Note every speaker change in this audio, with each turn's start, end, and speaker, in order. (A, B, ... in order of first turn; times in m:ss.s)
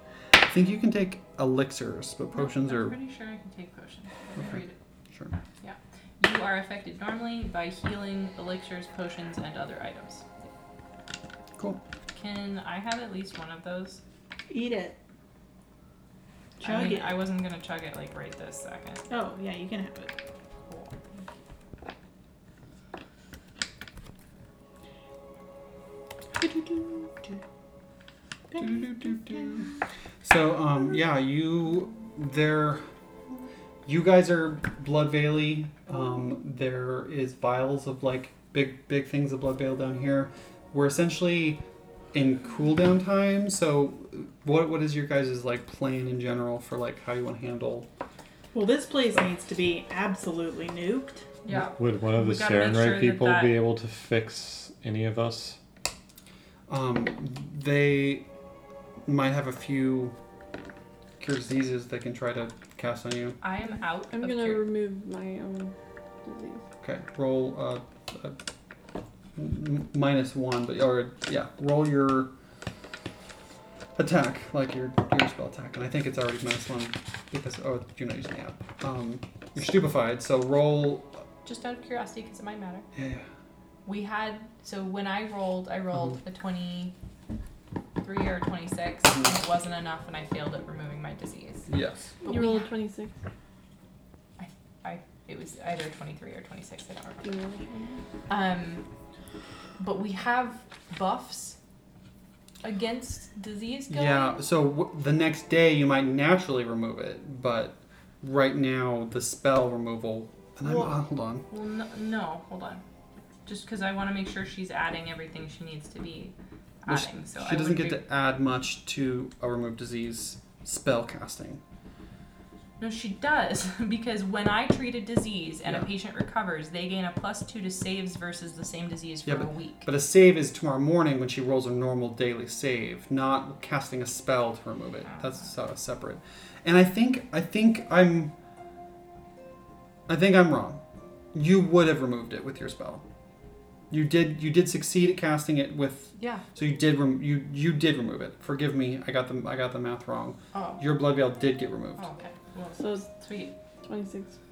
0:00.4-0:03.0 A
0:02.3-0:04.8 B
0:04.4-0:05.3 A
0:05.6-0:10.5 B
0:12.1-0:14.0 B
0:14.5-0:15.0 C
0:16.6-0:17.2 C
0:16.6-0:19.1 B
0:19.1-0:20.1 C
0:20.7-0:20.9 B
0:26.4-0:27.4 C
0:28.5-0:29.5 C
0:28.5-0:29.7 A
0:30.2-0:32.8 A
0:33.8-0:41.6 A
0:42.1-0:47.9 A
0:48.5-0:51.2 C
0:51.4-0:53.6 B
0:51.5-0:55.6 D
0:56.7-0:58.3 A
0:59.0-1:00.2 A
1:01.2-1:03.4 A
1:03.4-1:04.7 B
1:04.1-1:05.7 E
1:06.2-1:06.6 E
1:06.8-1:08.4 A
1:09.4-1:12.3 A
1:14.0-1:21.2 A
1:21.4-1:22.9 B
1:22.9-1:23.3 A
1:23.8-1:26.9 B
1:28.0-1:31.7 B
1:31.7-1:32.1 A
1:32.2-1:33.1 E
1:32.2-1:32.7 B
1:34.4-1:37.3 B
1:37.2-1:38.0 E
1:38.3-1:38.8 B
1:39.8-1:41.6 B
1:42.6-1:44.4 B
1:43.9-1:51.4 A
1:50.6-1:50.9 B
1:51.5-1:52.8 B
1:53.4-1:58.0 B
1:56.9-2:01.6 A
2:02.8-2:09.9 B
2:09.2-2:18.3 A
2:20.1-2:20.8 A
2:21.3-2:23.0 A
2:23.9-2:32.0 A
2:26.2-2:26.4 B
2:30.5-2:30.8 B
2:32.0-2:33.5 B
2:32.8-2:33.1 E
2:33.8-2:34.4 E